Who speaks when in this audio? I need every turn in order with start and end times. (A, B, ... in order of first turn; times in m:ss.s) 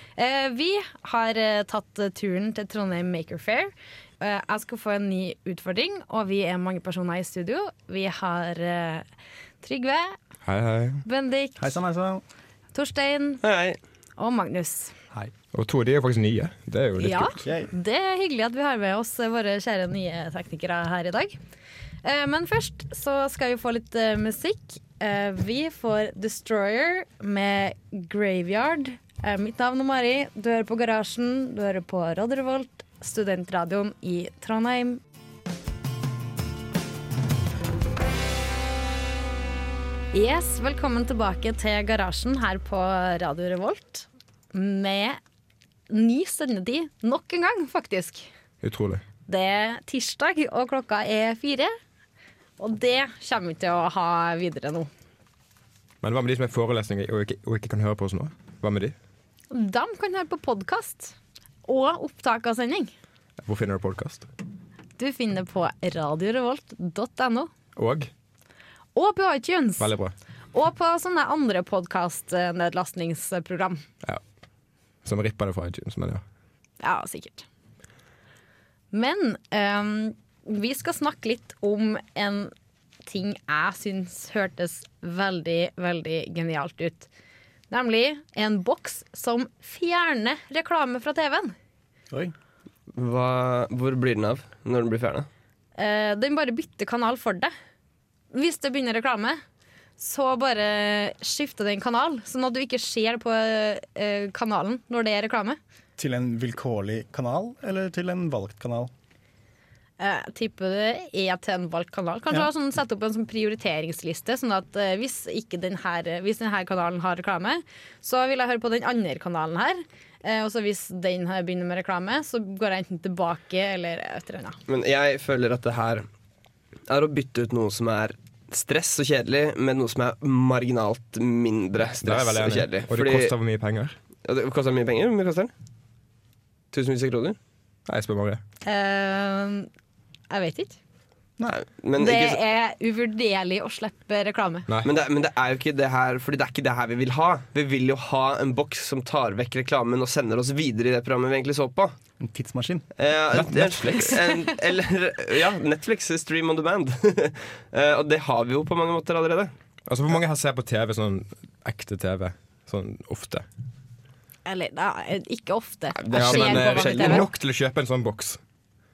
0:00.2-0:09.1 A
0:09.6-0:10.2 A
0:10.4-0:11.0 B
0:11.0-0:11.6 A
0:11.6-0:12.2 C
0:12.7-0:13.4 A
0:13.4-0:13.8 D
0:14.2-0:14.9 A
0:15.5-0:17.4 B
0:17.0-0:21.4 A
0:17.4-0:17.7 C
0:22.0-0:35.0 A
0:40.1-0:45.2 A
0:45.9-0:48.3 A
0:48.6-0:49.0 B
0:49.3-0:51.7 A
0:52.6-0:54.9 A
0:56.0-0:58.9 B
0:59.5-1:02.9 A
1:03.4-1:04.3 B
1:05.0-1:07.5 A
1:07.8-1:08.1 B
1:08.9-1:09.9 A
1:09.8-1:10.1 B
1:10.5-1:13.8 A
1:15.0-1:16.2 B
1:16.8-1:17.4 A
1:18.9-1:22.5 A
1:23.0-1:27.1 A
1:27.7-1:31.5 A
1:32.9-1:35.3 D
1:35.8-1:37.5 A
1:38.3-1:39.4 A
1:40.0-1:45.6 A
1:46.0-1:48.9 C
1:50.0-2:04.6 A
2:04.7-2:06.0 D
2:06.9-2:13.3 D
2:12.0-2:14.0 B
2:14.2-2:15.5 D
2:16.7-2:17.4 D
2:17.9-2:18.4 B
2:18.6-2:19.7 A
2:20.3-2:20.8 A
2:21.5-2:22.4 D
2:22.0-2:24.7 A
2:24.8-2:31.9 D
2:32.2-2:32.8 C
2:33.0-2:39.5 D
2:33.3-2:34.2 B
2:39.9-2:43.4 B
2:44.4-2:47.2 A
2:46.0-2:47.3 D
2:46.1-2:48.4 B